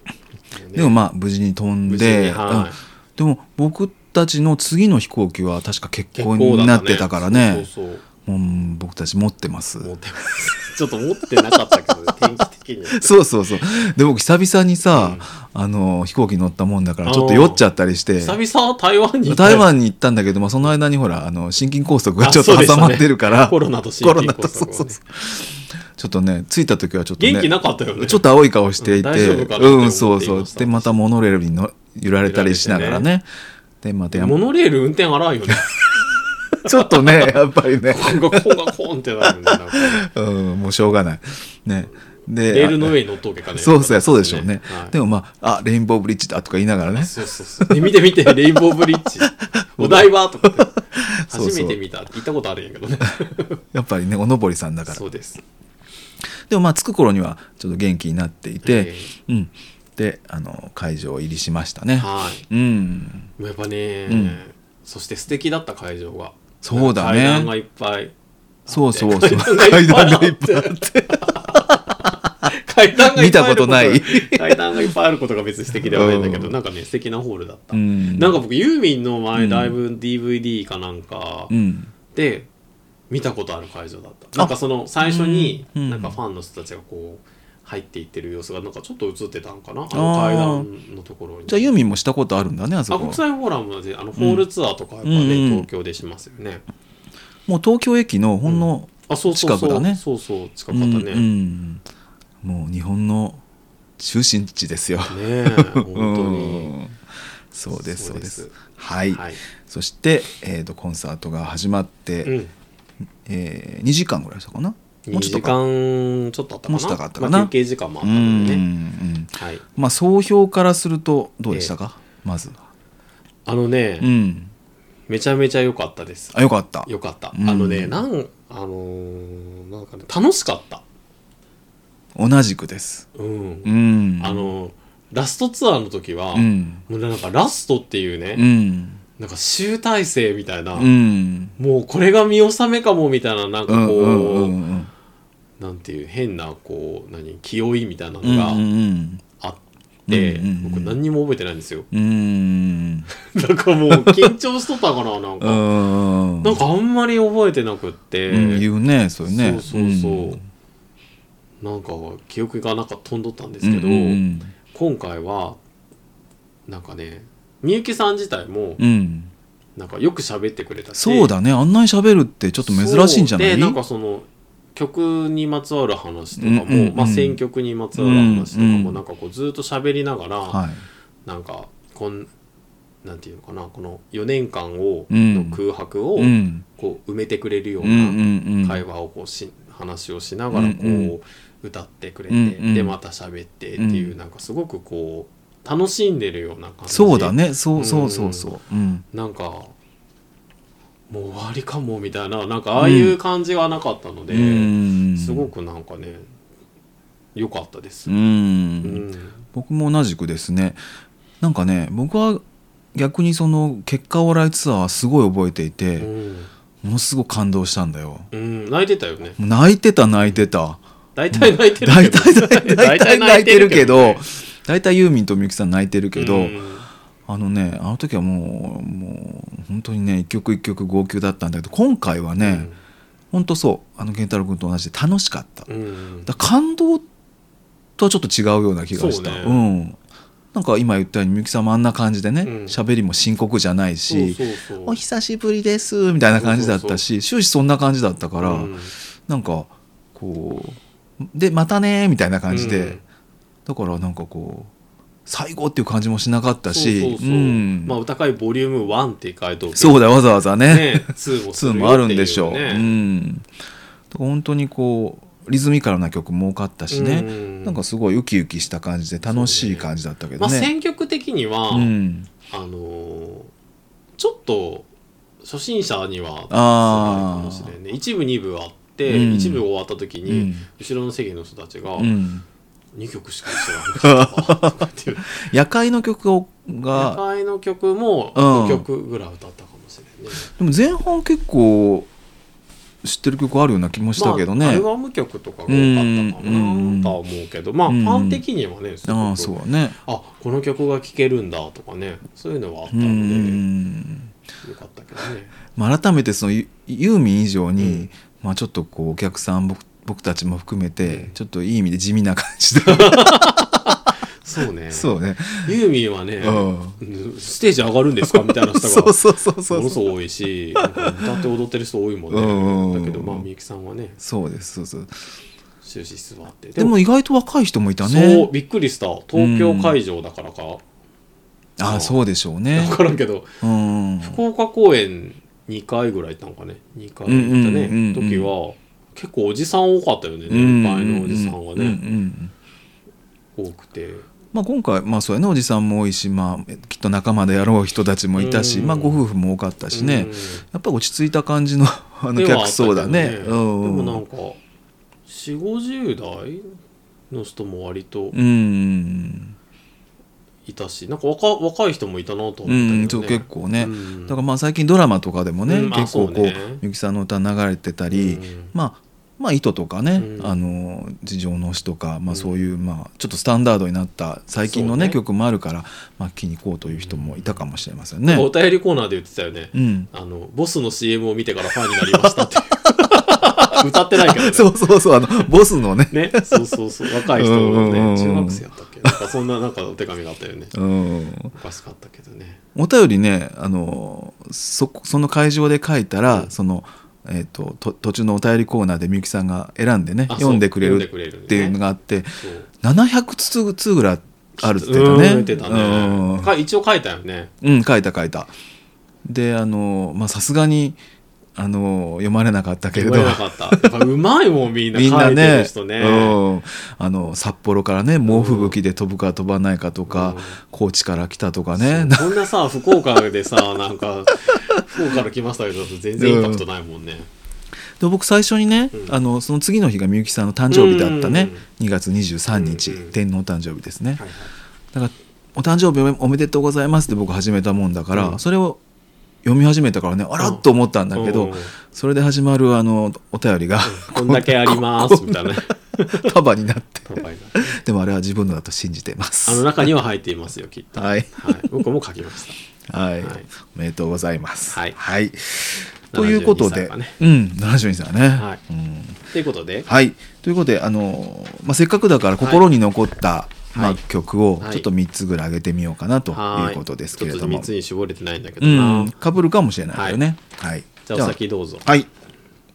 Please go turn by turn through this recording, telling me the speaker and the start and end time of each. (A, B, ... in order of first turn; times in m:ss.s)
0:00.5-0:01.0 A
0:00.7-0:07.7 B
0:01.9-0:02.8 A
0:06.2-0:08.0 A
0:08.2-0:09.9 B
0:09.8-0:13.1 A
0:12.9-0:18.4 B
0:14.9-0:15.2 A
0:17.0-0:17.6 A
0:18.2-0:19.7 A
0:19.3-0:33.3 B
0:22.2-0:25.0 A
0:27.2-0:28.2 A
0:28.8-0:31.0 A
0:32.2-0:33.1 A
0:33.8-0:34.4 B
0:34.1-0:35.7 A
0:36.6-0:38.6 B
0:36.6-0:37.4 A
0:37.9-0:40.1 A
0:39.2-0:43.0 B
0:42.5-0:45.0 A
0:43.6-0:48.0 B
0:47.0-0:50.7 A
0:49.2-0:51.8 B
0:51.3-0:53.6 A
0:53.7-0:55.0 B
0:54.9-0:55.4 A
0:56.5-1:03.3 B
0:58.6-0:59.1 A
1:02.0-1:02.5 A
1:03.4-1:08.1 A
1:04.1-1:04.4 B
1:06.6-1:07.5 B
1:08.7-1:21.5 A
1:08.7-1:11.8 B
1:13.1-1:14.8 B
1:15.8-1:16.6 B
1:17.7-1:18.4 B
1:19.4-1:19.8 B
1:21.5-1:21.9 B
1:22.1-1:22.5 A
1:23.1-1:31.7 A
1:24.4-1:26.2 B
1:29.9-1:30.7 B
1:31.5-1:33.2 B
1:32.9-1:36.6 A
1:34.2-1:34.5 B
1:35.0-1:35.7 B
1:37.5-1:40.0 B
1:38.4-1:41.3 A
1:40.7-1:41.8 B
1:42.4-1:43.4 B
1:44.0-1:47.0 B
1:45.1-1:46.7 A
1:47.5-1:52.4 B
1:47.7-1:48.6 A
1:49.1-1:49.4 A
1:52.2-1:52.5 A
1:53.3-1:55.6 B
1:55.1-1:58.6 A
1:56.7-2:02.6 B
2:03.4-2:04.1 A
2:04.0-2:04.5 B
2:05.1-2:10.8 A
2:06.3-2:08.0 B
2:12.2-2:13.1 B
2:13.2-2:18.5 A
2:13.6-2:14.5 B
2:16.4-2:16.8 B
2:18.4-2:19.0 B
2:19.2-2:20.9 A
2:20.8-2:21.6 B
2:21.6-2:24.6 A
2:23.7-2:24.9 B
2:25.6-2:28.6 A
2:28.2-2:29.2 B
2:29.4-2:31.9 A
2:30.1-2:31.0 B
2:31.9-2:33.1 B
2:33.1-2:35.6 A
2:33.9-2:34.3 B
2:35.4-2:36.6 B
2:36.4-2:38.7 A
2:38.3-2:40.4 B
2:39.2-2:40.4 A
2:41.6-2:45.6 A
2:43.6-2:44.5 B
2:46.7-2:48.8 A
2:48.8-2:49.3 B
2:49.8-2:51.3 A
2:51.0-2:53.8 B
2:52.6-3:00.6 A
2:56.4-2:57.4 B
2:58.0-2:59.0 B
3:00.5-3:00.8 B
3:01.3-3:02.3 A
3:03.0-3:18.5 A
3:05.1-3:05.6 B
3:06.2-3:06.6 B
3:07.8-3:08.8 B
3:10.5-3:11.2 B
3:12.3-3:13.0 B
3:13.8-3:14.2 B
3:16.9-3:19.0 B
3:19.1-3:19.7 A
3:21.1-3:26.3 A
3:22.8-3:23.2 B
3:24.3-3:25.5 B
3:27.4-3:28.1 A
3:28.1-3:30.8 B
3:28.8-3:29.4 A
3:31.4-3:32.4 B
3:33.0-3:36.1 B
3:36.0-3:36.5 A
3:36.8-3:38.3 B
3:38.3-3:39.4 A
3:39.4-3:46.6 B
3:41.2-3:44.2 A
3:46.2-3:46.9 A
3:47.3-3:52.7 B
3:52.4-3:52.8 A
3:53.3-3:55.7 B
3:55.7-3:56.3 A
3:56.3-3:57.0 B
3:58.0-4:00.0 B
3:58.9-3:59.6 A
4:00.5-4:13.0 B
4:02.4-4:02.8 A
4:04.1-4:05.0 A
4:06.3-4:07.0 A
4:08.4-4:08.9 A
4:12.5-4:13.0 A
4:13.7-4:14.7 B
4:15.3-4:18.0 B
4:16.7-4:20.1 A
4:19.8-4:23.5 B
4:20.6-4:22.9 A
4:24.1-4:30.7 B
4:26.9-4:27.8 A
4:29.2-4:31.9 A
4:31.7-4:32.3 B
4:32.5-4:33.5 A
4:34.2-4:34.9 A
4:35.4-4:42.2 A
4:36.5-4:37.7 B
4:39.1-4:39.6 B
4:40.3-4:40.6 B
4:42.0-4:42.5 B
4:43.0-4:45.4 A
4:43.9-4:47.2 B
4:46.9-4:50.5 A
4:48.4-4:48.9 B
4:50.5-4:52.1 B
4:53.0-4:54.9 B
4:54.2-5:03.6 A
4:55.7-4:57.2 B
4:57.9-4:58.4 B
4:59.1-5:00.0 B
5:02.9-5:04.3 B
5:04.6-5:05.5 A
5:05.7-5:14.0 B
5:07.8-5:08.1 A
5:11.0-5:11.3 A
5:12.8-5:19.2 A
5:14.9-5:15.7 B
5:16.4-5:17.0 B
5:18.3-5:20.1 B
5:19.7-5:24.2 A
5:20.8-5:21.5 B
5:22.3-5:23.5 B
5:24.2-5:25.2 B
5:25.8-5:27.0 A
5:26.8-5:28.5 B
5:28.0-5:30.8 A
5:29.4-5:30.0 B
5:31.8-5:33.0 B
5:31.8-5:32.2 A
5:32.7-5:33.5 A
5:33.6-5:34.4 B
5:34.2-5:42.0 A
5:37.3-5:38.5 B
5:40.5-5:42.5 B
5:43.6-5:44.3 A
5:44.5-5:54.2 B
5:48.4-5:49.3 A
5:49.9-5:50.6 A
5:52.4-5:54.6 A
5:55.3-5:56.8 A
5:57.3-5:58.4 A
5:58.3-5:59.6 B
6:00.7-6:04.4 A
6:02.7-6:18.5 B
6:05.7-6:06.8 A
6:08.1-6:08.7 A
6:10.2-6:10.6 A
6:12.3-6:12.6 A
6:14.6-6:15.2 A
6:16.9-6:17.6 A
6:18.3-6:24.7 A
6:19.7-6:20.1 B
6:21.9-6:22.3 B
6:23.3-6:29.2 B
6:26.1-6:30.8 A
6:30.7-6:31.5 B
6:31.5-6:32.6 A
6:32.8-6:46.5 B
6:40.3-6:41.8 A
6:42.4-6:42.7 A
6:44.6-6:47.5 A
6:47.6-6:48.5 B
6:49.2-6:51.0 B
6:51.6-6:53.9 B
6:52.9-6:56.4 A
6:54.9-7:02.4 B
6:58.2-6:58.8 A
7:00.1-7:00.6 A
7:01.8-7:07.3 A
7:06.2-7:06.6 B
7:08.0-7:14.2 B
7:10.7-7:11.6 A
7:12.5-7:13.1 A
7:14.2-7:14.5 A
7:14.9-7:18.8 B
7:18.1-7:18.4 A
7:19.4-7:29.9 B
7:20.4-7:21.7 A
7:23.8-7:26.3 A
7:27.1-7:27.8 A
7:29.4-7:32.6 A
7:31.0-7:31.7 B
7:32.9-7:39.2 B
7:33.2-7:33.5 A
7:34.7-7:35.0 A
7:36.1-7:37.2 A
7:39.3-7:39.9 A
7:39.9-7:47.7 B
7:42.4-7:42.6 A
7:43.7-7:44.0 A
7:44.6-7:44.9 A
7:46.3-7:49.2 A
7:48.6-7:52.1 B
7:49.9-7:50.2 A
7:51.1-7:51.9 A